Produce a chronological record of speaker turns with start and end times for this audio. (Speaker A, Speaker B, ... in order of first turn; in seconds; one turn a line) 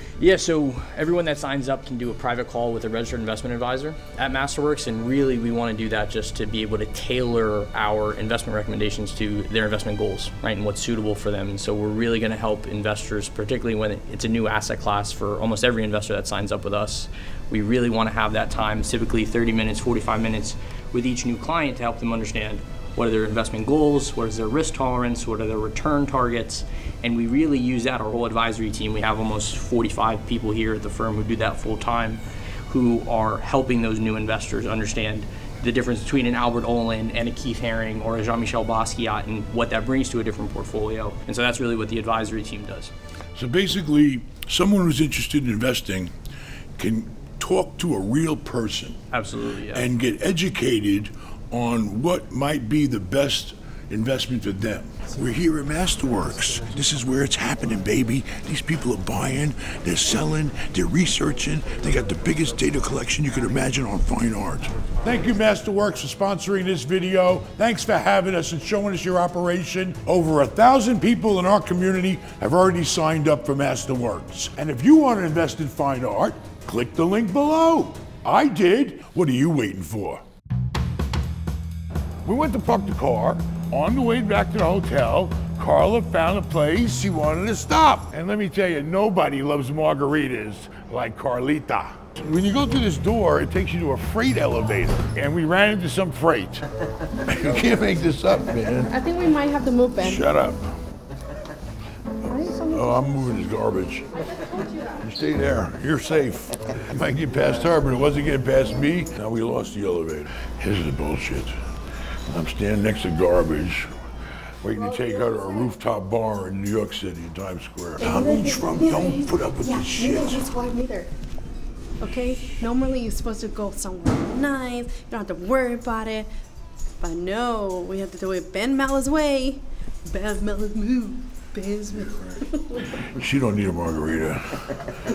Speaker A: 0.2-42.9
Speaker B: 43.4-46.1
Speaker B: 46.8-49.0
Speaker A: 49.1-49.9
Speaker B: 49.7-80.2
Speaker B: 82.2-96.6
Speaker B: 97.2-99.0
Speaker C: 98.9-100.2
Speaker B: 100.0-100.7
Speaker C: 102.3-102.8
Speaker B: 102.5-104.1
Speaker B: 105.0-111.5
Speaker B: 112.3-113.9
Speaker B: 114.6-120.5
Speaker C: 118.1-118.7
Speaker C: 119.8-120.3
Speaker D: 120.2-121.1
Speaker D: 122.0-126.3
Speaker D: 127.0-131.1
Speaker C: 131.4-132.3
Speaker B: 133.0-134.4